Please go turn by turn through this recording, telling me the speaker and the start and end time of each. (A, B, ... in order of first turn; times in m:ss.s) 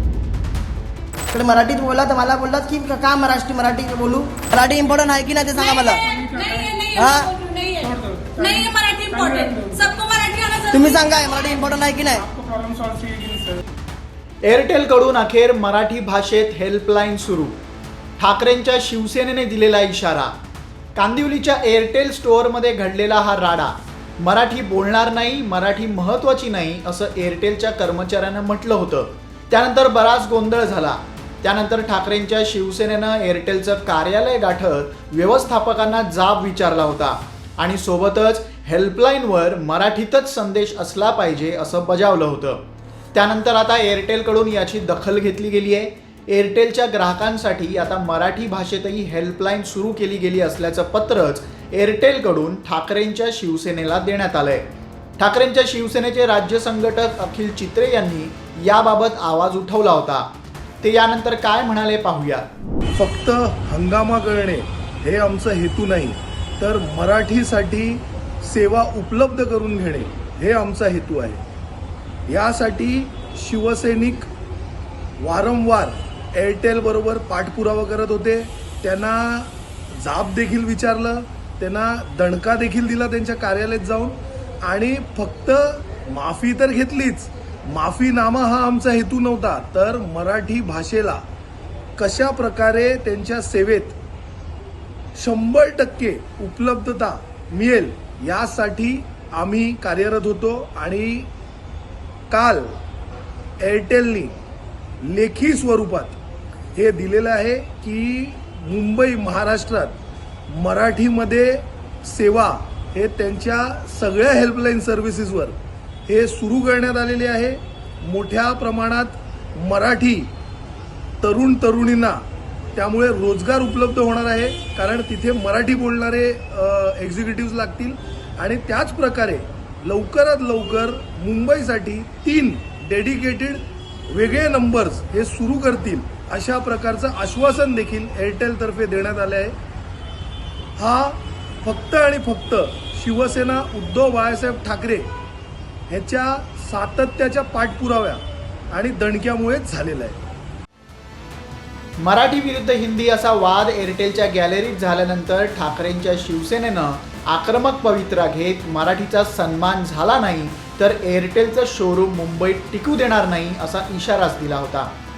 0:01.3-0:06.0 A
0:05.6-0:11.6 B
0:06.0-0:06.8 C
0:06.9-0:07.3 A
0:07.9-0:09.8 C
0:10.7-0:12.2 A
0:12.3-0:13.7 C
0:14.4-0:17.6 D
0:18.2-0:20.3 D
0:21.0-0:42.6 D
0:43.1-0:54.6 D
0:55.2-1:00.3 D
1:00.8-1:02.5 D
1:03.0-1:11.4 E
1:12.3-1:14.3 E
1:15.2-1:31.2 E
1:32.0-1:34.0 E
1:35.2-1:41.3 E
1:42.3-1:42.8 E
1:43.6-1:44.4 E
1:45.0-1:46.2 E
1:46.8-1:50.0 E
1:50.5-2:00.3 E
2:01.2-2:19.6 E
2:20.8-2:25.1 E
2:25.9-2:30.2 E
2:32.0-2:44.9 D